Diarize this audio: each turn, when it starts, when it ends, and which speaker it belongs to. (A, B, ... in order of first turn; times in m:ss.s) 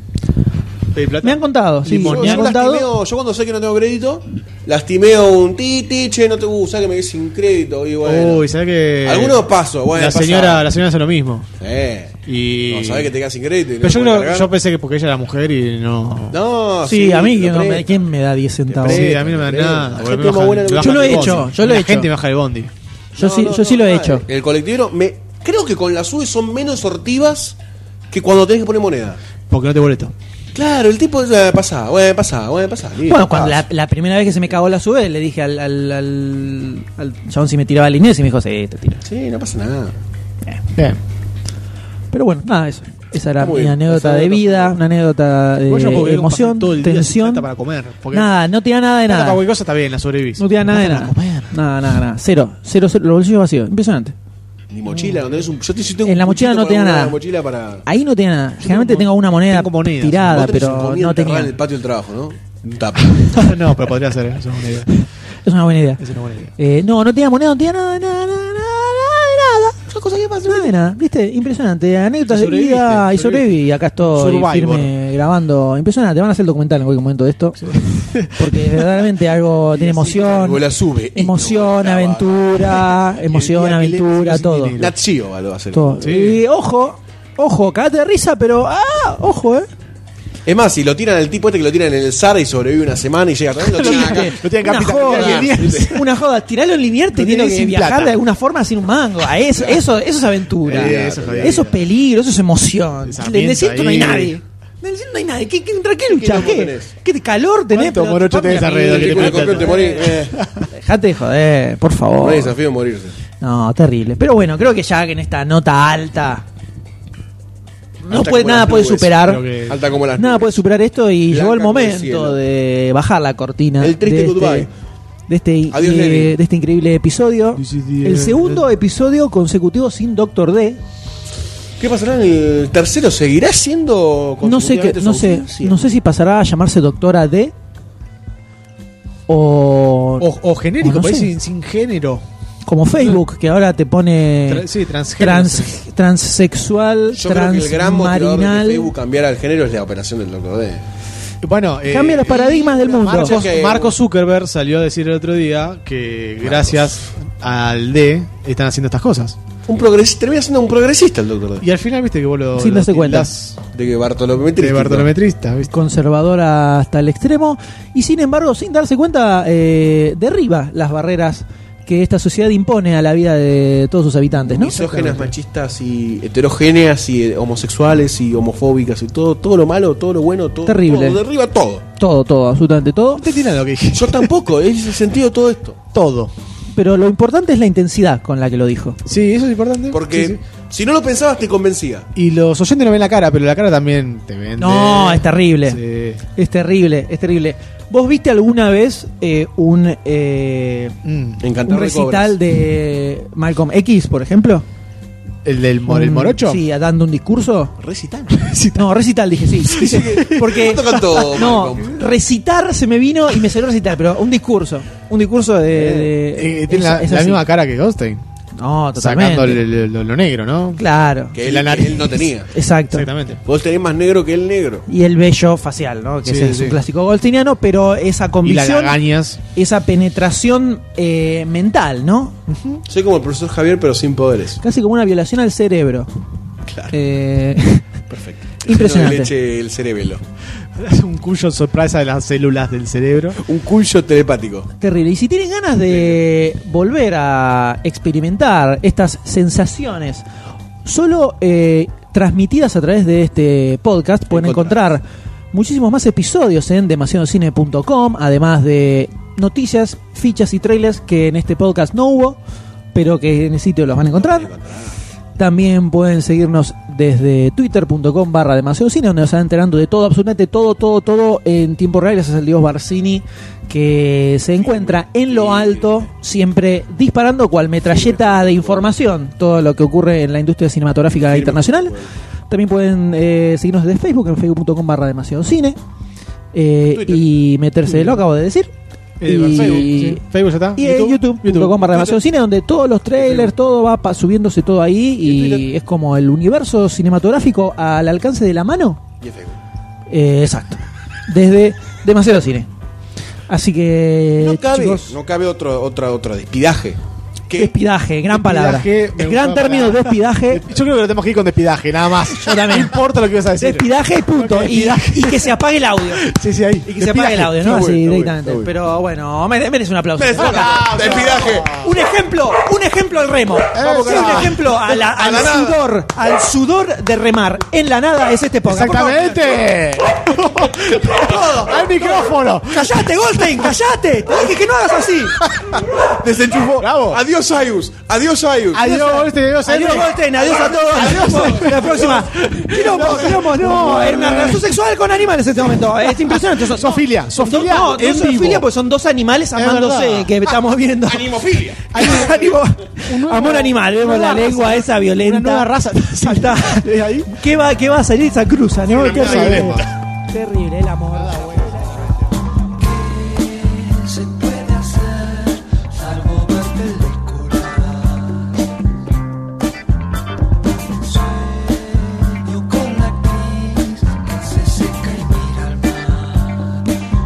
0:00.9-0:02.5 A
0:01.2-0:02.9 B
0:02.0-0:08.4 C
0:08.0-0:11.5 A
0:09.0-0:10.7 C
0:11.6-0:14.5 C
0:12.2-0:13.1 A
0:13.8-0:16.4 A
0:16.3-0:18.0 C
0:16.8-0:19.1 B
0:18.7-0:21.5 C
0:18.8-0:22.7 A
0:20.8-0:22.1 B
0:23.2-0:27.6 C
0:23.2-0:24.2 B
0:28.1-0:29.2 C
0:29.5-0:30.1 A
0:30.5-0:33.6 C
0:33.0-0:39.0 B
0:39.0-0:40.0 C
0:42.1-0:47.5 B
0:43.4-0:44.8 C
0:45.7-0:48.3 A
0:48.1-0:49.4 B
0:49.1-0:51.5 A
0:50.4-0:54.1 B
0:54.7-0:57.8 C
0:54.9-0:55.4 A
0:56.0-0:57.2 B
0:57.8-1:01.5 B
0:58.6-1:00.8 A
1:00.3-1:03.4 C
1:03.3-1:04.9 A
1:04.9-1:06.0 B
1:06.0-1:06.5 A
1:06.6-1:09.8 B
1:09.9-1:10.7 C
1:10.4-1:24.8 B
1:12.3-1:14.9 A
1:17.6-1:19.1 A
1:19.7-1:22.9 C
1:23.3-1:24.9 A
1:24.8-1:26.0 C
1:25.7-1:29.7 B
1:26.0-1:26.4 A
1:30.4-1:36.0 C
1:33.7-1:36.0 A
1:33.8-1:52.6 B
1:37.1-1:38.2 A
1:40.6-1:41.8 A
1:40.7-1:41.6 C
1:43.0-1:44.4 A
1:46.1-1:46.9 C
1:47.7-1:50.7 A
1:48.8-1:50.4 C
1:52.2-1:53.2 C
1:53.4-1:56.4 B
1:58.0-1:59.4 B
1:58.1-2:00.6 C
1:59.2-1:59.8 A
2:00.2-2:04.7 B
2:01.3-2:02.4 C
2:03.8-2:04.7 C
2:05.3-2:10.8 B
2:05.7-2:06.4 C
2:07.6-2:08.7 A
2:11.8-2:15.8 C
2:14.4-2:17.5 B
2:19.3-2:20.3 B
2:20.2-2:22.2 A
2:20.8-2:21.3 B
2:22.6-2:28.9 B
2:24.5-2:25.8 A
2:27.1-2:30.8 C
2:31.4-2:39.4 A
2:31.9-2:33.4 B
2:32.5-2:34.0 C
2:36.4-2:37.0 C
2:39.7-2:41.6 C
2:41.6-2:43.6 A
2:42.6-2:43.3 B
2:43.7-2:45.1 C
2:44.6-2:45.7 A
2:45.7-2:54.7 B
2:54.5-2:55.3 A
2:54.6-3:01.8 C
3:00.6-3:01.2 B
3:02.0-3:03.2 B
3:03.2-3:04.3 A
3:03.9-3:05.8 C
3:05.9-3:06.3 A
3:06.7-3:09.0 B
3:09.0-3:10.4 A
3:09.9-3:12.1 C
3:12.2-3:16.2 A
3:14.6-3:15.8 B
3:16.3-3:20.9 B
3:21.0-3:21.4 A
3:21.4-3:22.4 C
3:21.6-3:24.6 B
3:25.4-3:26.6 A
3:25.8-3:27.7 B
3:27.8-3:28.3 C
3:28.3-3:28.9 A
3:28.8-3:37.4 B
3:29.6-3:31.2 A
3:29.6-3:32.2 C
3:35.7-3:38.2 A
3:38.6-3:39.6 B
3:39.0-3:40.8 A
3:40.8-3:41.4 B
3:41.3-3:42.5 C
3:41.4-3:42.3 A
3:42.5-3:43.1 B
3:42.9-3:43.4 A
3:43.4-3:44.8 C
3:44.9-3:49.0 B
3:46.2-3:46.8 A
3:48.4-3:49.4 A
3:49.5-3:52.5 B
3:52.9-3:54.6 C
3:54.6-3:56.1 B
3:56.6-3:56.9 C
3:56.9-3:57.8 B
3:58.1-4:00.2 C
3:58.6-3:59.3 B
4:00.7-4:03.4 A
4:03.4-4:04.7 C
4:04.8-4:10.2 B
4:10.8-4:22.4 B
4:14.3-4:14.9 C
4:22.9-4:24.5 B
4:24.0-4:24.9 C
4:25.4-4:41.9 B
4:34.6-4:36.1 C
4:37.8-4:38.9 C
4:41.2-4:42.1 C
4:42.5-4:45.8 B
4:46.5-4:48.7 B
4:47.8-4:48.2 A
4:49.2-4:52.2 A
4:49.2-4:50.2 B
4:50.8-4:59.0 B
4:53.2-4:53.5 A
4:55.2-4:55.6 C
4:59.2-4:59.6 C
5:00.1-5:02.7 B
5:03.5-5:05.1 B
5:04.4-5:07.7 C
5:07.5-5:10.6 B
5:08.3-5:15.5 A
5:12.3-5:13.0 B
5:13.6-5:16.3 B
5:16.1-5:17.8 A
5:16.8-5:29.3 B
5:17.6-5:18.7 C
5:20.2-5:21.8 C
5:20.3-5:21.9 A
5:23.7-5:24.6 A
5:23.8-5:25.8 C
5:28.6-5:33.7 A
5:28.8-5:29.4 C
5:30.9-5:32.1 C
5:32.6-5:35.4 B
5:35.5-5:35.8 A
5:35.6-5:38.9 C
5:36.8-5:37.2 A
5:38.7-5:40.2 A
5:38.8-6:02.1 B
5:40.4-5:42.2 C
5:40.9-5:44.8 A
5:43.0-5:43.3 C
5:45.9-5:48.7 A
5:49.5-5:50.4 A
5:51.0-5:52.3 C
5:51.9-5:52.5 A
5:53.0-5:57.4 A
5:58.9-5:59.9 A
5:58.9-5:59.8 C
6:01.1-6:02.2 A
6:02.9-6:08.1 B
6:12.0-6:16.6 B